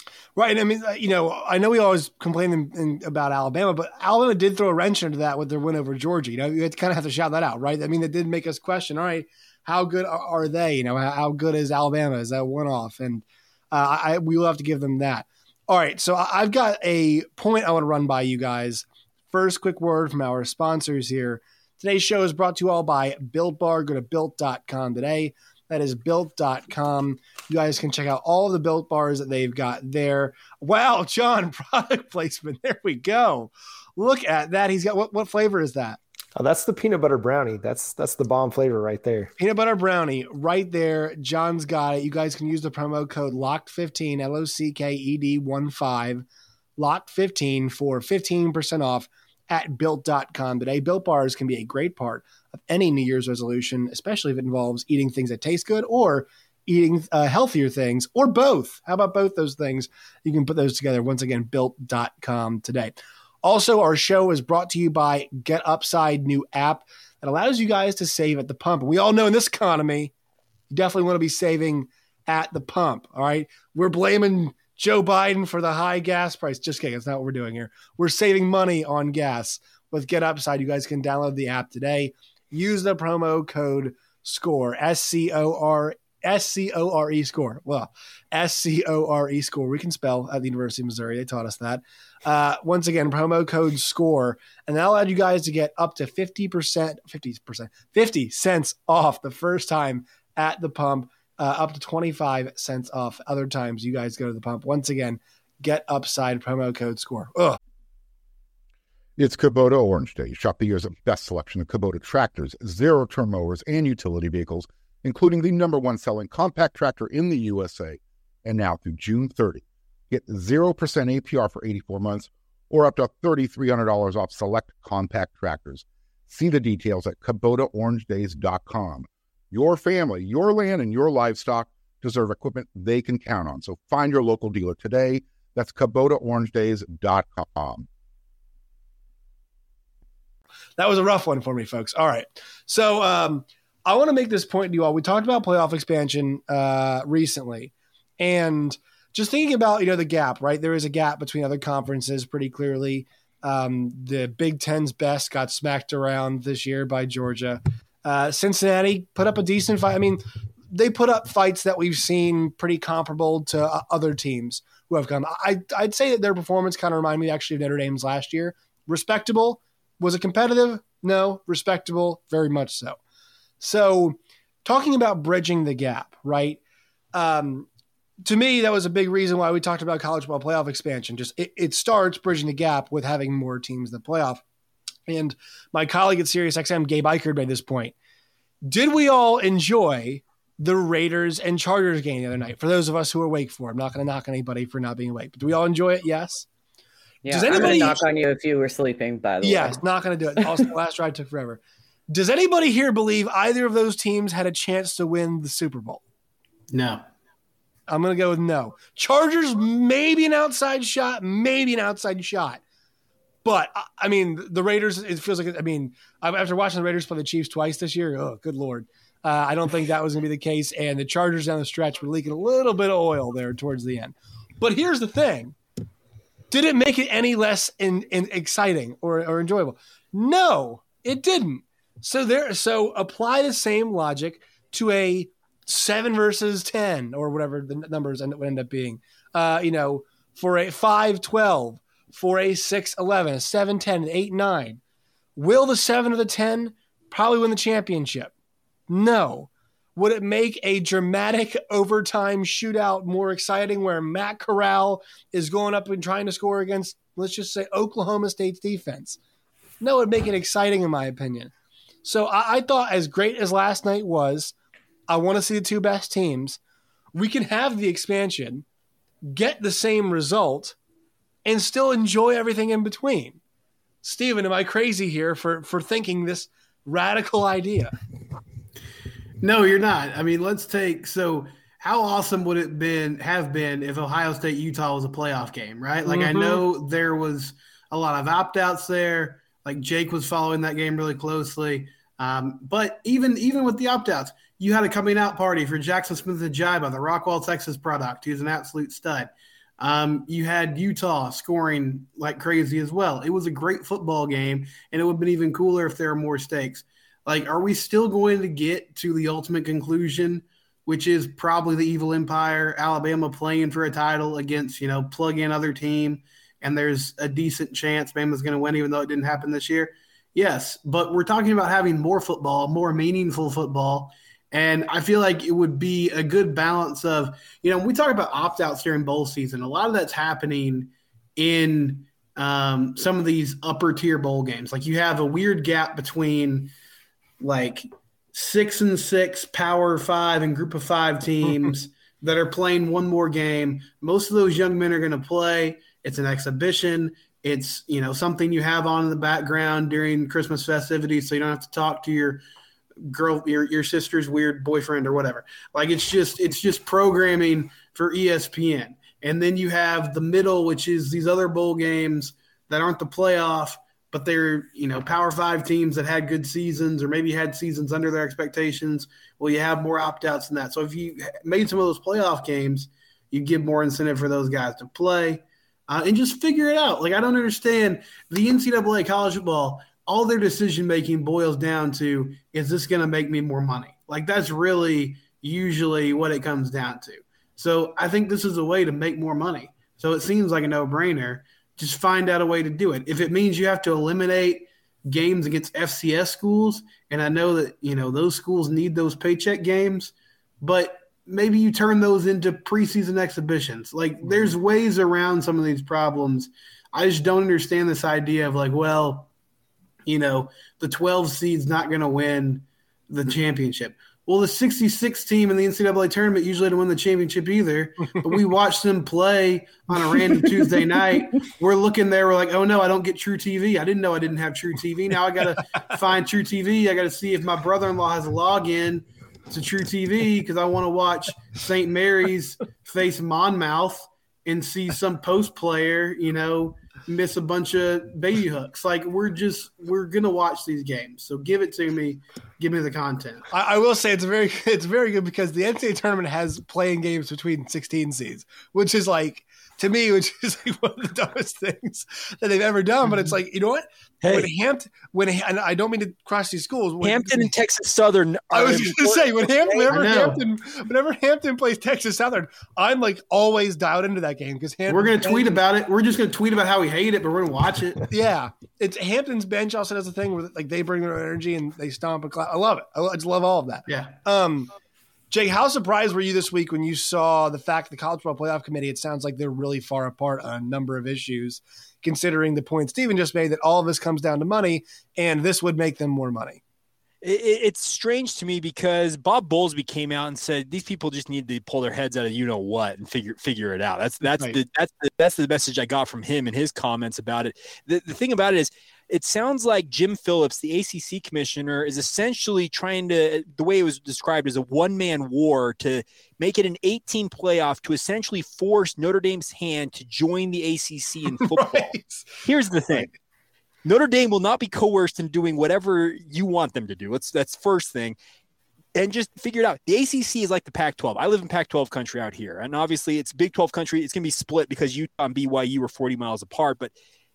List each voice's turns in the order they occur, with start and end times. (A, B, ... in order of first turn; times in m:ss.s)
0:00.4-0:36.0 A
0:36.3-0:39.3 B
0:39.4-0:46.2 A
0:46.8-1:10.1 A
1:10.7-1:47.6 A
1:49.2-2:17.9 C
2:20.8-2:53.0 A
2:53.6-2:56.6 A
2:57.1-2:57.7 A
2:58.2-3:04.4 A
3:05.1-3:07.9 A
3:08.6-3:16.5 A
3:17.2-3:19.8 D
3:17.3-3:18.0 A
3:17.5-3:17.8 E
3:19.4-3:26.0 A
3:20.4-3:20.6 D
3:26.7-3:27.0 E
3:27.9-3:32.6 A
3:33.4-3:45.6 A
3:46.5-4:04.8 A
4:05.4-4:08.3 A
4:08.9-4:19.2 A
4:19.8-4:21.5 A
4:22.0-4:24.5 A
4:25.1-4:26.6 A
4:27.1-4:28.6 A
4:29.2-4:30.8 A
4:31.4-4:33.4 A
4:34.0-4:37.9 A
4:39.4-5:36.7 E
4:46.0-4:46.6 A
5:37.4-5:52.4 E
5:53.0-6:49.3 E
6:50.0-7:23.5 E
6:59.9-7:00.8 A
7:23.5-7:37.5 A
7:34.2-7:34.5 F
7:37.0-7:39.9 F
7:38.5-7:45.5 A
7:39.9-7:40.4 E
7:44.9-7:48.1 E
7:48.1-7:54.7 A
7:53.9-7:54.2 E
7:55.3-8:06.6 A
8:07.2-8:31.9 F
8:31.3-8:32.2 A
8:32.4-8:33.1 F
8:33.8-8:38.2 F
8:38.9-8:46.9 F